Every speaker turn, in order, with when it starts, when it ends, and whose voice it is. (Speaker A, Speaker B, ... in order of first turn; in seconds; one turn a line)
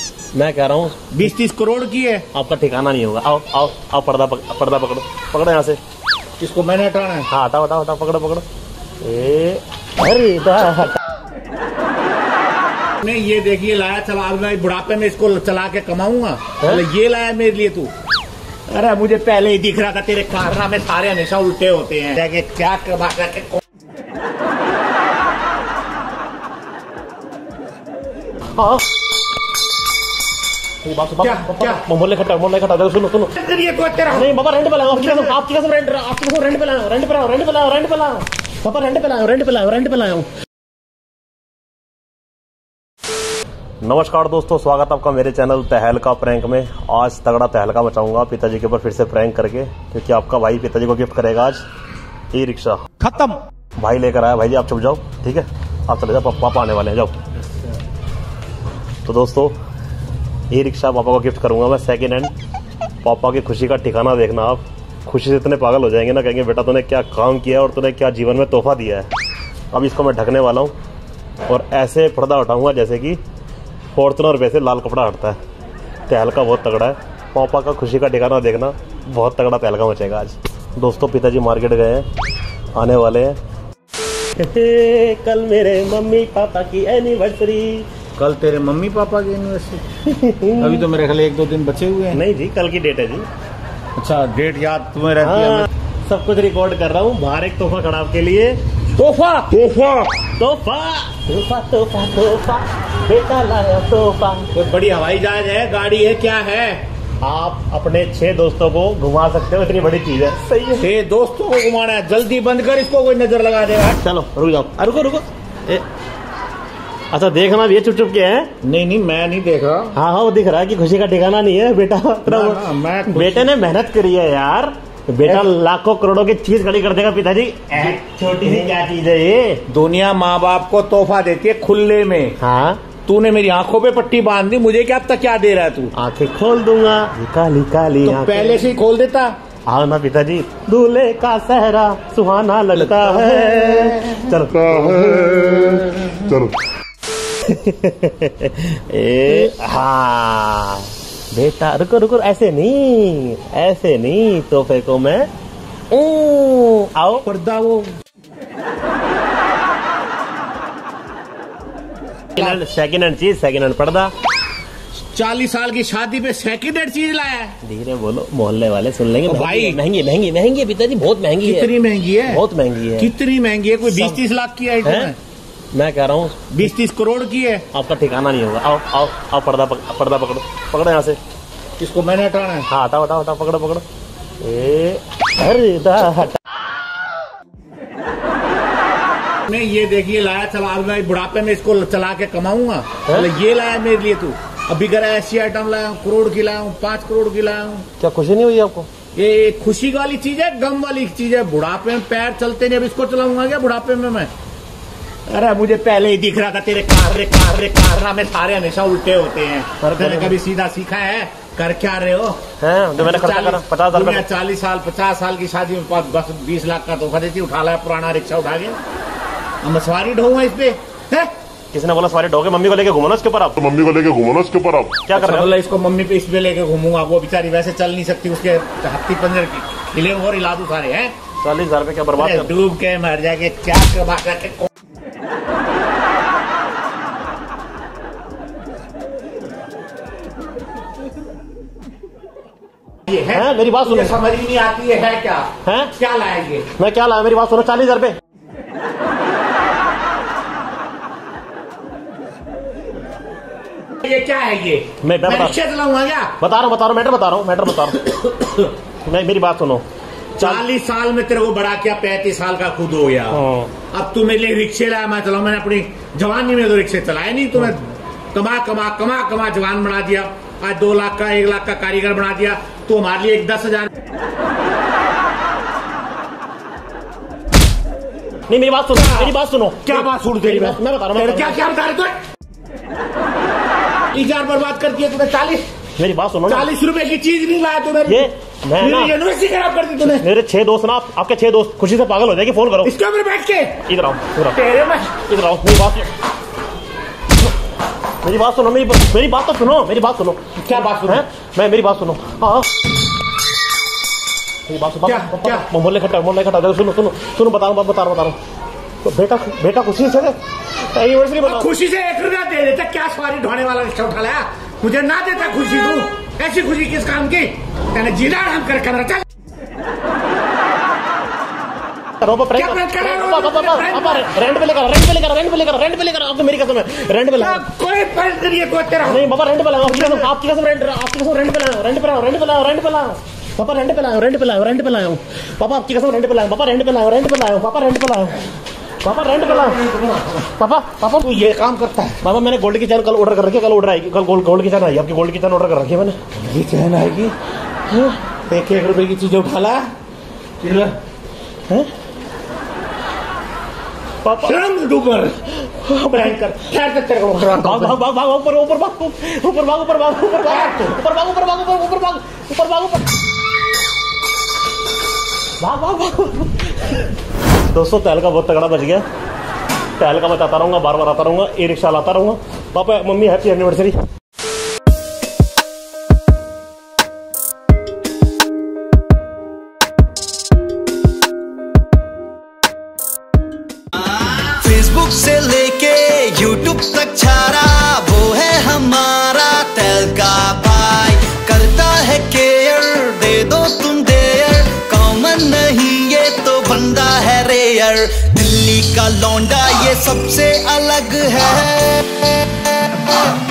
Speaker A: 0.3-1.3
Speaker B: 1.1-2.2
Speaker A: 2.3-5.8
Speaker B: 6.4-7.2
Speaker A: 7.3-8.4
Speaker A: 9.0-11.0
Speaker B: 13.0-17.9
Speaker B: 18.7-23.6
Speaker A: 28.6-28.8
Speaker A: 30.8-33.3
Speaker B: 31.2-31.8
Speaker B: 33.3-34.3
Speaker A: 34.1-40.3
Speaker B: 35.0-35.4
Speaker A: 43.8-51.6
Speaker A: 52.3-57.1
Speaker A: 59.0-59.5
Speaker A: 60.5-62.3
Speaker A: 63.0-69.1
Speaker A: 69.7-70.7
Speaker A: 71.5-73.2
Speaker A: 73.9-75.4
Speaker A: 76.1-82.0
Speaker A: 82.8-83.4
Speaker A: 84.4-87.9
Speaker B: 88.2-89.8
Speaker A: 90.0-90.8
Speaker B: 90.6-92.2
Speaker A: 92.1-93.2
Speaker B: 94.0-95.7
Speaker A: 95.2-98.6
Speaker B: 99.0-99.5
Speaker A: 99.5-104.5
Speaker B: 104.5-106.8
Speaker A: 107.2-110.9
Speaker B: 110.8-114.0
Speaker A: 114.0-115.8
Speaker A: 117.1-118.5
Speaker B: 118.6-119.9
Speaker A: 119.9-129.6
Speaker B: 122.2-123.5
Speaker B: 127.8-128.7
Speaker B: 129.7-132.4
Speaker A: 132.4-132.8
Speaker B: 133.0-135.9
Speaker A: 135.9-138.6
Speaker B: 138.0-139.3
Speaker A: 139.7-145.6
Speaker B: 142.8-144.2
Speaker C: 145.1-145.6
Speaker A: 147.4-155.3
Speaker A: 155.9-157.2
Speaker B: 157.2-157.9
Speaker A: 162.3-164.1
Speaker B: 165.0-167.5
Speaker A: 167.6-171.7
Speaker B: 169.2-169.8
Speaker B: 171.4-172.4
Speaker A: 172.3-173.1
Speaker B: 173.0-175.1
Speaker A: 173.8-174.2
Speaker A: 174.8-175.1
Speaker A: 175.7-176.6
Speaker B: 176.5-177.6
Speaker A: 177.7-181.2
Speaker B: 181.8-182.7
Speaker A: 182.7-183.8
Speaker A: 184.4-186.4
Speaker B: 189.5-197.8
Speaker A: 198.0-198.9
Speaker B: 199.1-204.3
Speaker B: 205.3-212.4
Speaker A: 209.8-210.3
Speaker A: 212.6-214.3
Speaker B: 213.0-218.8
Speaker B: 219.6-221.3
Speaker A: 221.7-223.7
Speaker C: 223.6-225.0
Speaker A: 225.0-225.5
Speaker B: 225.1-231.1
Speaker A: 231.4-232.5
Speaker B: 232.2-234.7
Speaker B: 243.1-246.7
Speaker A: 243.3-244.2
Speaker A: 245.6-245.9
Speaker A: 246.8-248.2
Speaker B: 254.0-256.3
Speaker A: 255.0-255.6
Speaker A: 256.4-258.3
Speaker A: 259.1-259.8
Speaker B: 260.4-263.4
Speaker A: 263.3-263.7
Speaker B: 263.9-273.9
Speaker A: 278.5-281.6
Speaker B: 278.9-282.2
Speaker B: 284.1-285.6
Speaker A: 286.0-286.7
Speaker B: 286.5-290.2
Speaker A: 288.1-289.1
Speaker A: 290.0-292.9
Speaker B: 292.8-293.8
Speaker A: 293.9-294.6
Speaker B: 294.5-295.2
Speaker A: 295.3-296.1
Speaker A: 298.2-302.7
Speaker B: 300.6-301.2
Speaker A: 304.7-308.4
Speaker B: 305.0-305.7
Speaker A: 309.0-311.7
Speaker B: 311.4-319.2
Speaker A: 322.2-327.6
Speaker B: 322.5-324.4
Speaker B: 327.4-329.2
Speaker A: 329.0-338.4
Speaker B: 329.9-330.3
Speaker A: 339.0-339.8
Speaker B: 339.4-340.4
Speaker A: 340.6-341.3
Speaker B: 341.2-342.2
Speaker A: 342.2-346.2
Speaker B: 346.3-347.3
Speaker A: 347.9-348.1
Speaker B: 348.5-349.9
Speaker B: 350.6-350.9
Speaker A: 354.2-354.6
Speaker B: 354.4-355.4
Speaker A: 355.8-356.4
Speaker B: 356.0-358.0
Speaker A: 357.6-363.0
Speaker B: 360.5-361.0
Speaker A: 365.6-366.9
Speaker A: 367.7-369.0
Speaker A: 370.0-374.0
Speaker D: 384.3-402.0